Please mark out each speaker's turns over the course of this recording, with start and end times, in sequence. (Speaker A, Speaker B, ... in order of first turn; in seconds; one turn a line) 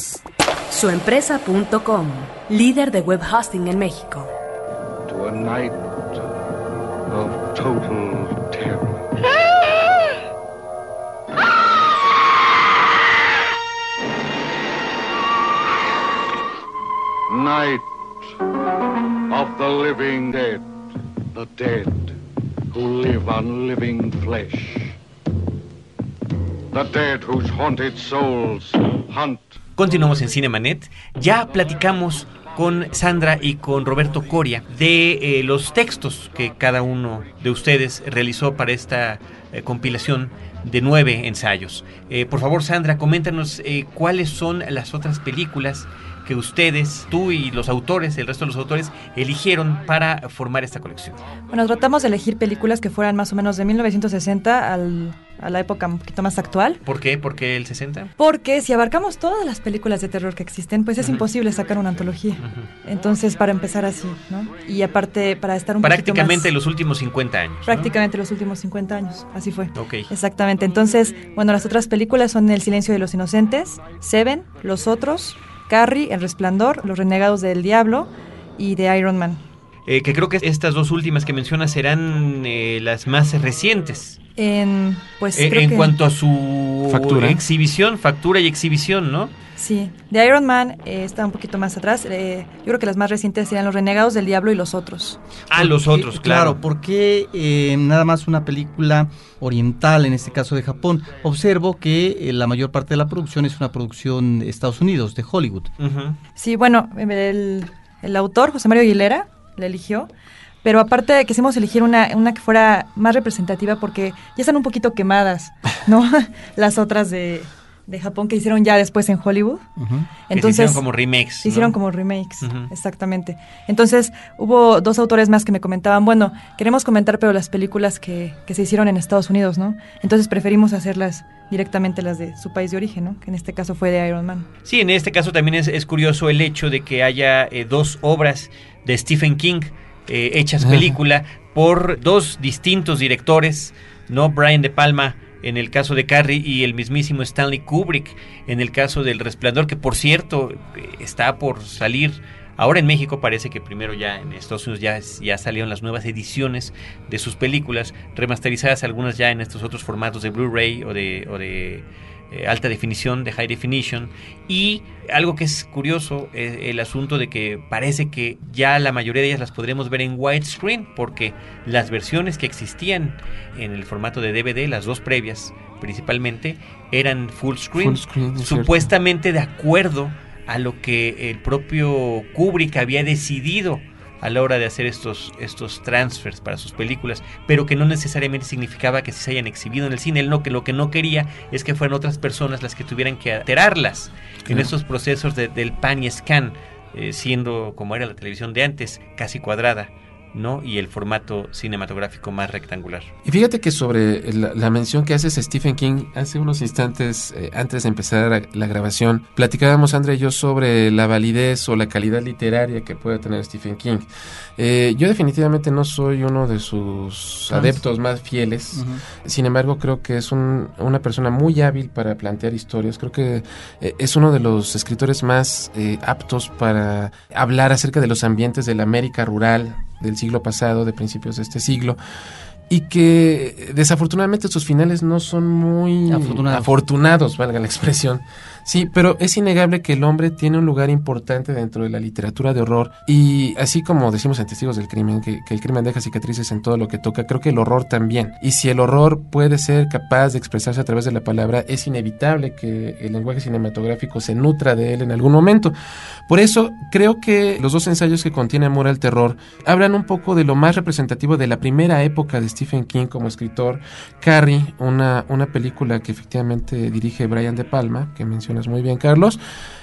Speaker A: 0.7-4.3
Speaker B: 5.1-6.2
Speaker B: 7.1-9.0
Speaker B: 17.3-17.9
Speaker B: 19.3-20.7
Speaker B: 21.3-22.2
Speaker B: 22.7-25.0
Speaker B: 26.7-29.5
Speaker C: 29.8-51.2
Speaker D: 51.5-56.8
Speaker C: 56.9-58.1
Speaker D: 58.2-66.5
Speaker C: 61.0-61.3
Speaker C: 65.8-67.9
Speaker D: 67.7-79.4
Speaker C: 69.8-70.1
Speaker C: 79.9-84.2
Speaker D: 84.4-86.0
Speaker C: 85.3-89.3
Speaker E: 86.9-87.4
Speaker D: 89.6-95.2
Speaker C: 95.5-96.6
Speaker F: 95.6-105.7
Speaker C: 105.8-106.2
Speaker D: 106.4-110.1
Speaker D: 110.6-119.7
Speaker F: 119.8-120.1
Speaker D: 120.3-120.8
Speaker C: 120.3-121.8
Speaker D: 121.4-134.5
Speaker C: 122.4-122.7
Speaker C: 134.7-203.1
Speaker E: 140.6-140.9
Speaker E: 177.8-178.9
Speaker E: 194.5-194.7
Speaker E: 203.2-232.0
Speaker F: 217.5-217.8
Speaker F: 218.7-219.0
Speaker E: 232.7-255.7
Speaker F: 236.1-236.7
Speaker E: 256.3-269.4